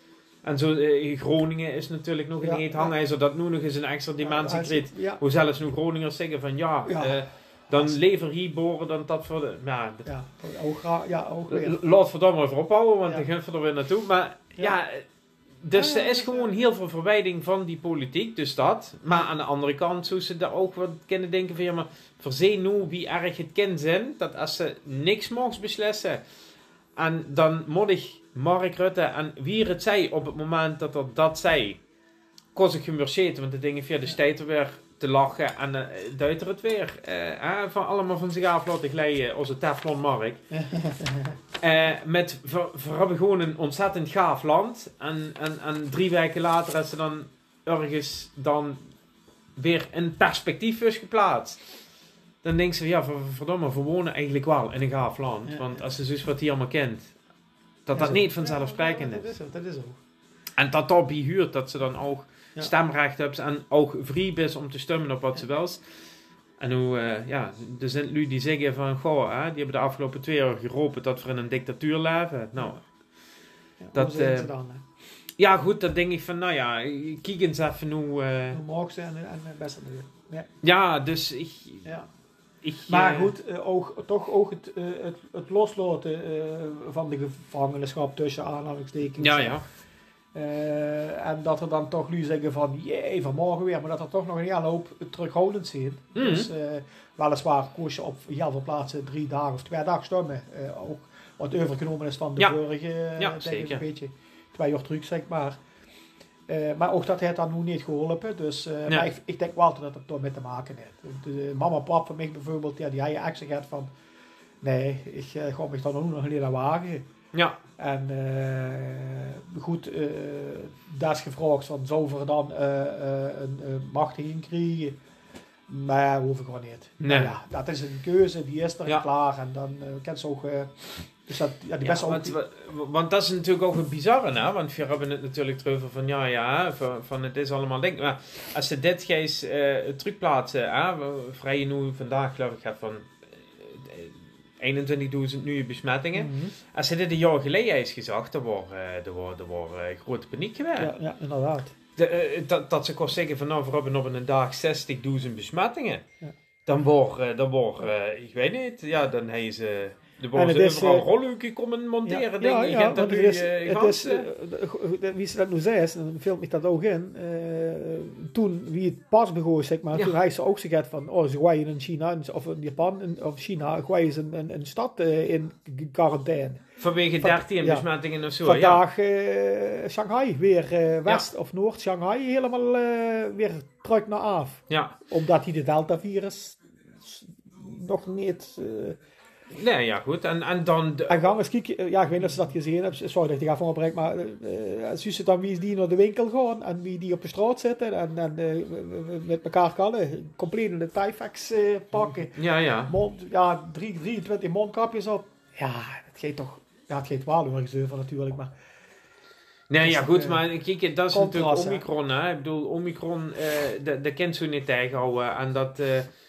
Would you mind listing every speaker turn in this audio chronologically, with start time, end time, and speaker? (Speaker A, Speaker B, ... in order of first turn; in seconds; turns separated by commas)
Speaker A: 0.4-10.1, Speaker B: 2.4-2.9, Speaker B: 4.2-5.2, Speaker B: 6.9-7.2, Speaker B: 10.1-11.7, Speaker A: 11.5-15.0, Speaker A: 15.6-26.2, Speaker B: 15.7-16.5, Speaker A: 26.9-31.8, Speaker A: 32.5-40.4, Speaker B: 40.5-41.4, Speaker A: 41.6-48.9, Speaker A: 49.5-51.6, Speaker A: 52.4-57.1, Speaker B: 55.5-55.8, Speaker A: 57.9-59.2, Speaker B: 57.9-60.0, Speaker A: 60.6-65.8, Speaker A: 66.6-72.8, Speaker B: 73.8-74.8, Speaker A: 73.9-74.5, Speaker A: 75.4-78.6, Speaker B: 78.5-80.5, Speaker A: 80.6-81.9, Speaker A: 82.6-83.3, Speaker B: 82.9-89.6, Speaker A: 89.2-89.6, Speaker B: 90.3-105.6, Speaker A: 96.1-96.5, Speaker A: 103.2-103.8, Speaker B: 106.5-113.9, Speaker B: 114.6-117.1, Speaker B: 117.8-125.0, Speaker B: 125.7-130.7, Speaker A: 127.0-127.4, Speaker B: 131.3-132.3, Speaker A: 131.8-150.9, Speaker B: 146.1-146.5, Speaker B: 150.8-151.7, Speaker A: 152.0-156.0, Speaker A: 156.7-164.3, Speaker B: 160.3-161.1, Speaker B: 162.1-176.6, Speaker A: 176.8-178.8, Speaker B: 177.2-177.8, Speaker B: 178.4-189.0, Speaker A: 184.7-184.9, Speaker A: 189.5-191.3, Speaker B: 191.1-202.3, Speaker A: 201.9-202.9, Speaker B: 202.9-208.5, Speaker A: 209.7-216.1, Speaker B: 209.8-210.4, Speaker B: 211.1-211.8